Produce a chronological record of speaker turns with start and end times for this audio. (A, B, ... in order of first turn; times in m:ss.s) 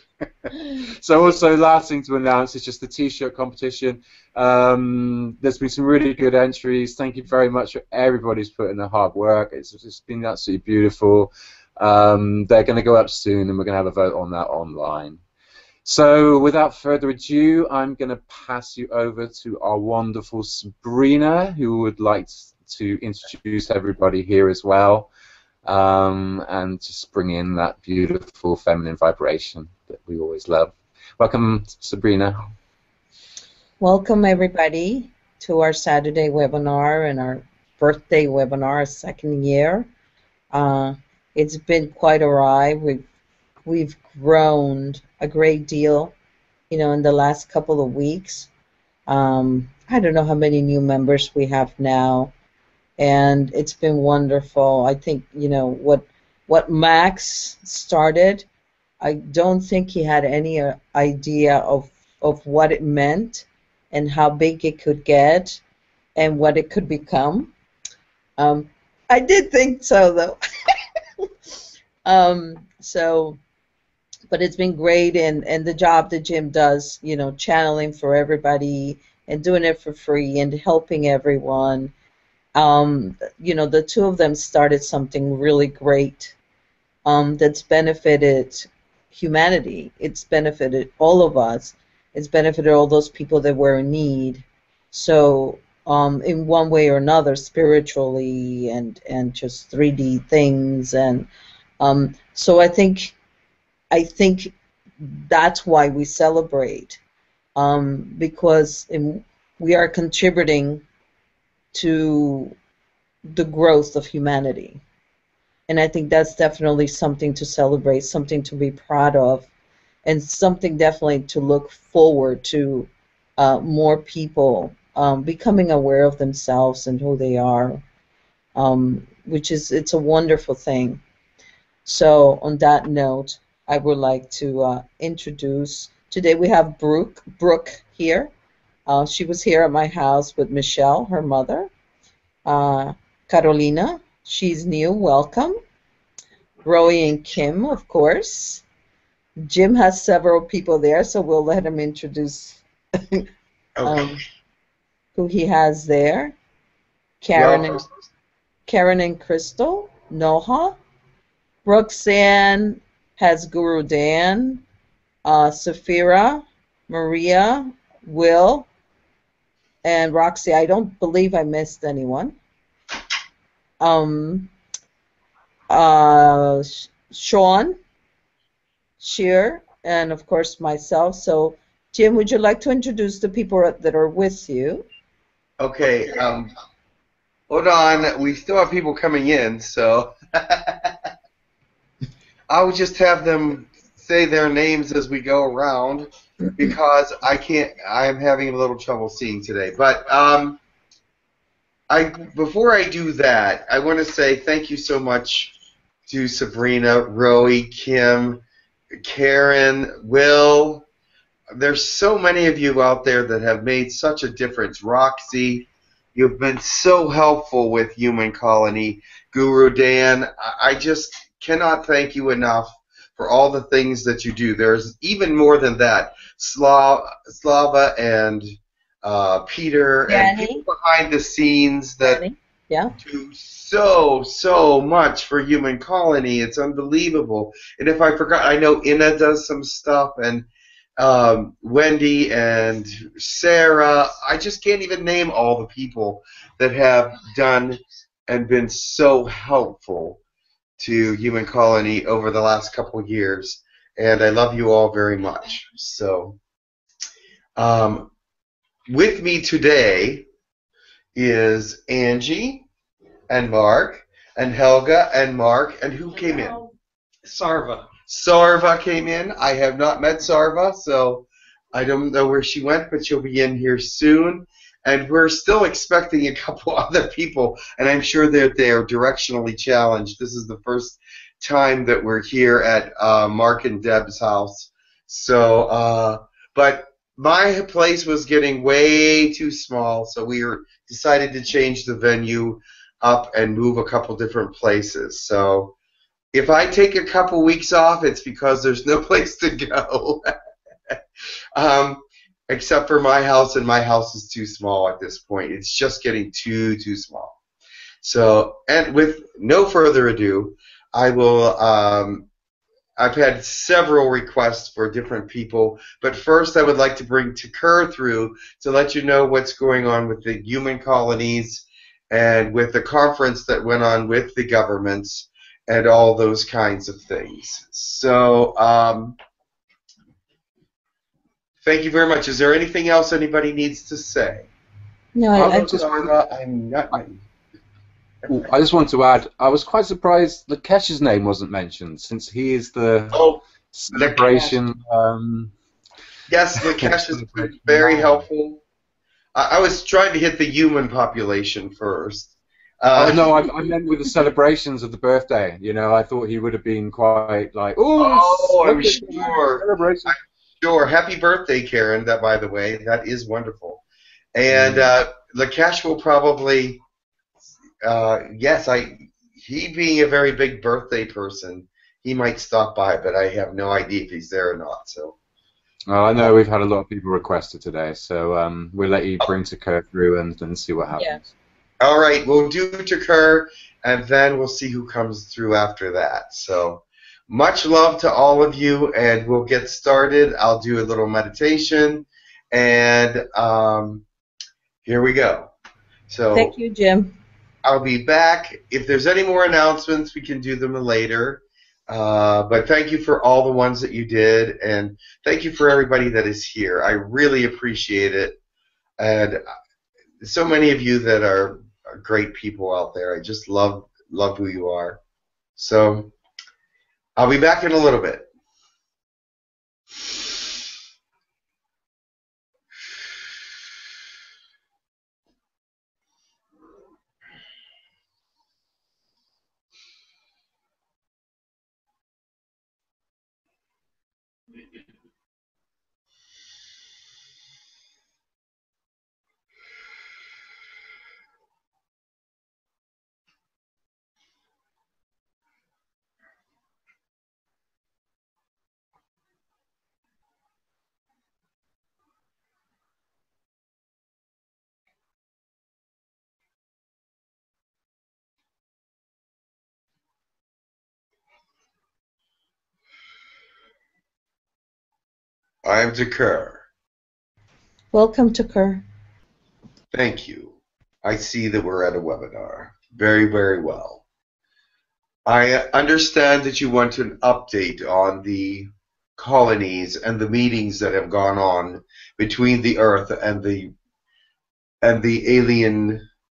0:00.8-0:15.2 A
0:15.8-0:25.1 A
0:25.6-0:32.6 A
0:33.8-0:39.9 B
0:40.5-0:43.0 B
0:43.6-0:46.1 B
0:46.7-0:48.5 B
0:49.1-0:52.3 B
0:53.0-0:58.5 B
0:59.0-1:05.6 B
1:06.2-1:07.5 B
1:08.4-1:10.4 B
1:12.0-1:13.4 B
1:14.3-1:21.9 B
1:22.6-1:26.4 B
1:27.0-1:41.3 B
1:41.8-1:43.2 B
1:43.9-1:47.0 B
1:47.6-1:50.8 B
1:51.7-1:52.6 B
1:53.2-1:54.8 B
1:55.7-1:59.5 B
2:00.0-2:07.8 B
2:08.6-2:11.0 B
2:11.8-2:18.3 B
2:18.9-2:21.7 B
2:22.5-2:25.6 B
2:26.6-2:28.6 B
2:29.4-2:32.6 B
2:33.8-2:34.2 C
2:33.8-2:34.2 B
2:35.2-2:36.4 B
2:37.2-2:37.8 B
2:37.3-2:37.9 C
2:38.7-2:40.8 B
2:41.6-2:44.6 B
2:45.2-2:48.7 B
2:49.8-2:52.4 B
2:53.8-2:54.5 B
2:55.7-2:57.8 B
2:59.0-3:04.8 B
3:05.6-3:06.5 C
3:07.5-3:11.0 C
3:12.5-3:20.6 C
3:21.9-3:25.6 C
3:26.1-3:28.4 C
3:29.0-3:30.9 C
3:31.5-3:48.5 C
3:49.0-3:52.2 C
3:50.1-3:50.6 B
3:52.0-3:52.9 B
3:53.0-4:10.2 C
4:10.8-4:16.4 C
4:17.6-4:18.1 C
4:18.9-4:20.3 C
4:21.2-4:22.6 C
4:23.3-4:26.6 C
4:27.2-4:55.7 C
4:56.3-5:00.3 C
5:01.6-5:07.4 C
5:08.0-5:12.3 C
5:13.0-5:29.2 C
5:31.6-5:34.5 C
5:35.2-5:35.8 B
5:35.4-5:37.2 C
5:35.4-5:36.1 A
5:38.3-5:45.5 A
5:43.1-5:44.6 C
5:46.3-5:48.6 C
5:46.6-5:48.2 A
5:49.4-5:53.4 C
5:53.0-6:00.1 A
5:58.0-6:03.8 C
6:04.4-6:06.8 C
6:04.5-6:04.9 A
6:07.8-6:15.2 C
6:15.9-6:21.3 A
6:20.9-6:21.2 B
6:21.8-6:34.0 C
6:34.8-6:35.5 C
6:36.1-6:36.5 C
6:36.3-6:37.2 B
6:37.6-6:48.4 C
6:49.0-6:49.4 C
6:50.2-6:55.0 C
6:55.6-6:56.1 C
6:57.2-6:58.3 C
7:45.6-7:46.6 C
7:47.9-7:48.8 B
7:49.9-7:54.0 C
7:55.3-8:03.7 C
8:04.8-8:06.0 C